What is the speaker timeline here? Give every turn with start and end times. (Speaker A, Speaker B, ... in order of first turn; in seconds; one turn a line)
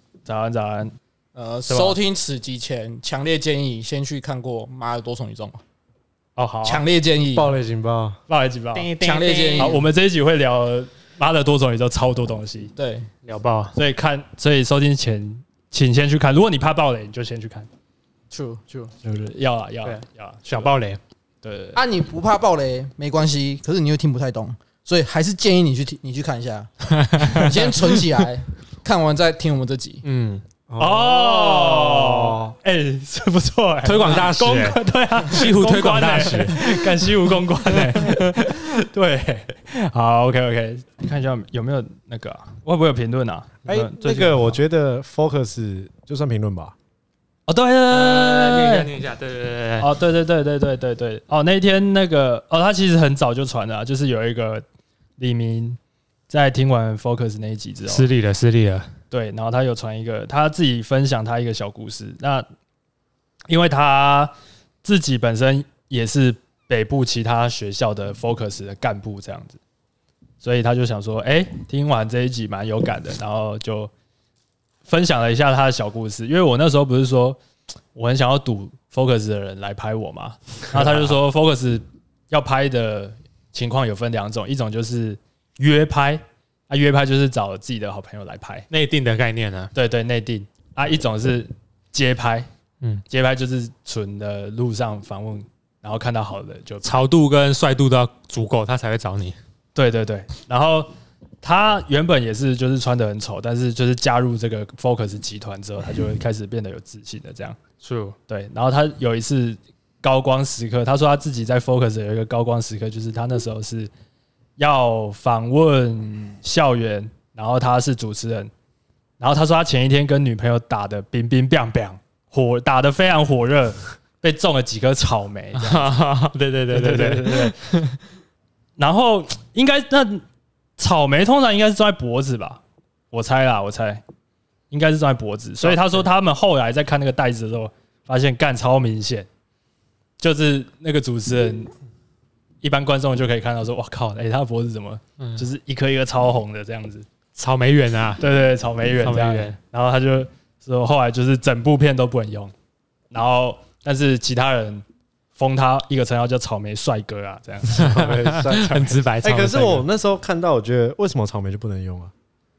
Speaker A: 0.3-1.0
Speaker B: 1.4-5.6
Speaker A: 1.7-2.0
Speaker A: 6.4-6.8
Speaker B: 6.7-7.6
Speaker C: 7.3-8.2
Speaker A: 8.3-8.9
Speaker D: 8.8-9.8
Speaker B: 9.0-9.8
Speaker A: 9.6-12.7
Speaker B: 12.8-13.1
Speaker D: 13.2-13.8
Speaker A: 13.8-17.7
Speaker B: 18.3-18.9
Speaker A: 19.0-20.7
Speaker D: 19.8-21.0
Speaker A: 21.4-21.8
Speaker B: 21.8-30.0
Speaker D: 27.0-27.8
Speaker D: 30.0-30.4
Speaker C: 30.7-32.5
Speaker A: 30.8-44.6
Speaker D: 33.8-37.1
Speaker D: 37.7-38.3
Speaker C: 43.7-46.8
Speaker A: 47.5-48.9
Speaker D: 47.9-49.9
Speaker A: 49.8-54.6
Speaker A: 55.2-55.8
Speaker A: 56.3-58.1
Speaker D: 57.9-58.9
Speaker A: 59.1-62.5
Speaker A: 63.5-69.6
Speaker A: 70.4-73.9
Speaker A: 74.8-77.4
Speaker A: 78.0-88.7
Speaker D: 88.7-89.7
Speaker A: 89.7-92.5
Speaker A: 93.1-96.9
Speaker D: 96.8-99.4
Speaker A: 99.8-100.9
Speaker A: 101.4-107.6
Speaker D: 107.8-108.2
Speaker A: 108.3-113.9
Speaker A: 114.6-118.5
Speaker A: 119.2-126.0
Speaker D: 125.6-128.0
Speaker A: 126.7-127.6
Speaker A: 128.8-130.2
Speaker A: 130.8-132.6
Speaker A: 133.1-134.0
Speaker A: 134.7-139.3
Speaker D: 135.6-136.0
Speaker A: 140.2-141.7
Speaker A: 142.6-147.1
Speaker D: 147.4-148.2
Speaker A: 148.2-152.5
Speaker D: 149.0-149.6
Speaker A: 153.1-154.8
Speaker A: 155.4-158.1
Speaker C: 157.7-162.1
Speaker D: 157.7-159.9